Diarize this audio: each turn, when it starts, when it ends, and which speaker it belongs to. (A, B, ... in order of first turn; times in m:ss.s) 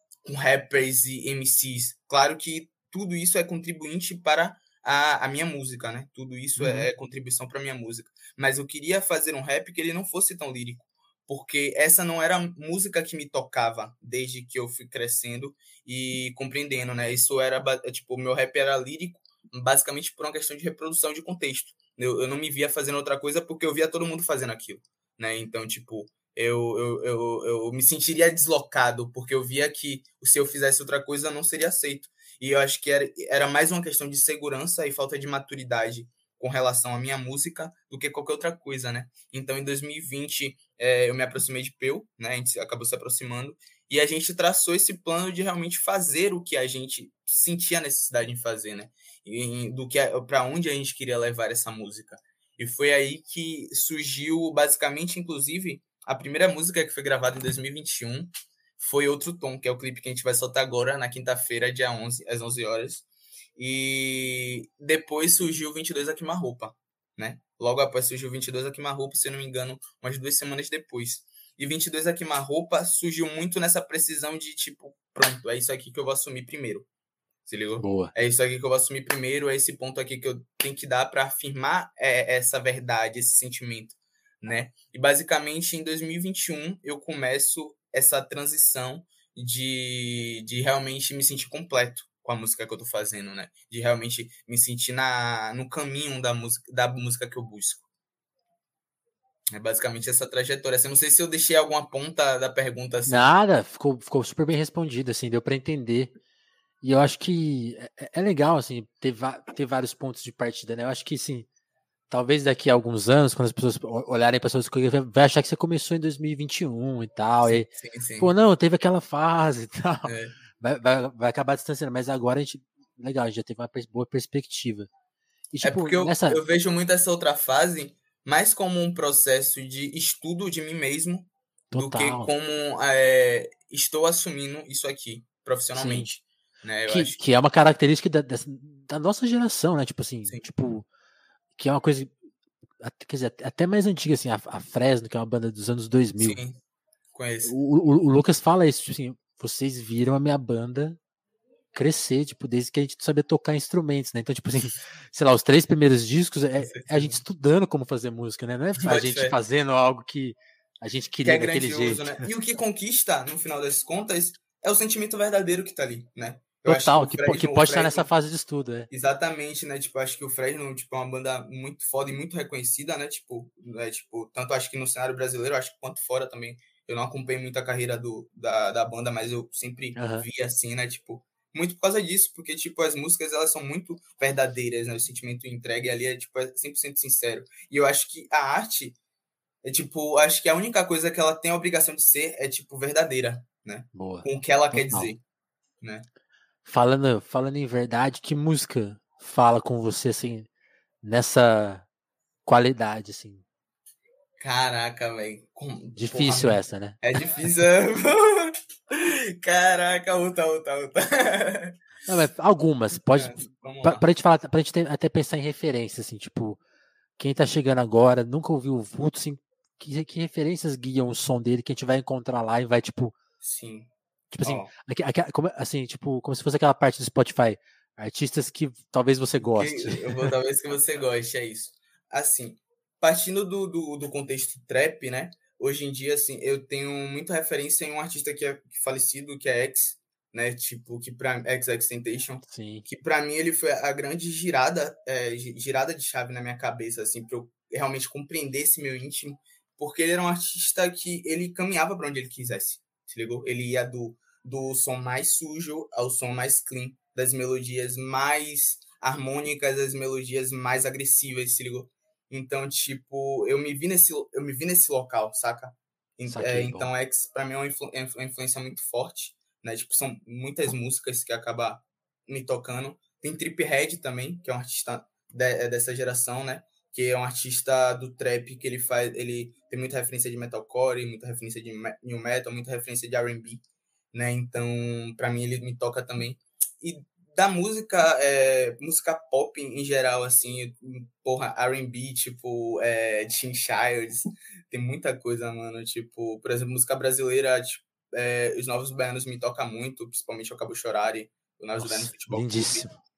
0:00.2-1:03.1 A
0:06.6-0:06.9 B
1:03.6-1:16.9 A
1:17.5-1:37.9 A
1:17.8-1:18.1 B
1:39.5-1:43.3 A
1:43.1-1:46.1 B
1:46.8-1:51.5 B
1:52.1-1:57.7 B
1:57.4-1:58.4 A
1:58.2-2:04.9 B
2:00.0-2:00.4 A
2:05.5-2:06.4 B
2:05.6-2:17.2 A
2:11.7-2:12.3 B
2:15.7-2:16.1 B
2:16.9-2:20.9 B
2:21.6-2:22.1 B
2:22.8-2:26.4 B
2:26.2-2:26.6 A
2:27.1-2:27.6 A
2:27.4-2:31.0 B
2:31.7-2:42.3 B
2:36.6-2:37.2 A
2:38.8-2:39.4 A
2:41.2-2:48.1 A
2:46.6-2:48.9 B
2:48.9-3:09.0 A
3:00.0-3:00.3 B
3:09.6-3:15.2 A
3:13.9-3:15.1 B
3:15.8-3:16.1 A
3:16.6-3:20.5 B
3:21.0-3:21.9 B
3:22.4-3:23.4 B
3:24.4-3:31.8 A
3:26.0-3:27.0 B
3:32.1-3:36.6 B
3:33.1-3:34.0 A
3:37.2-3:43.2 B
3:43.4-3:43.9 A
3:44.3-3:50.3 B
3:44.4-3:44.7 A
3:49.5-5:02.9 A
4:02.5-4:02.9 B
4:26.3-4:26.9 B
5:01.8-5:03.0 B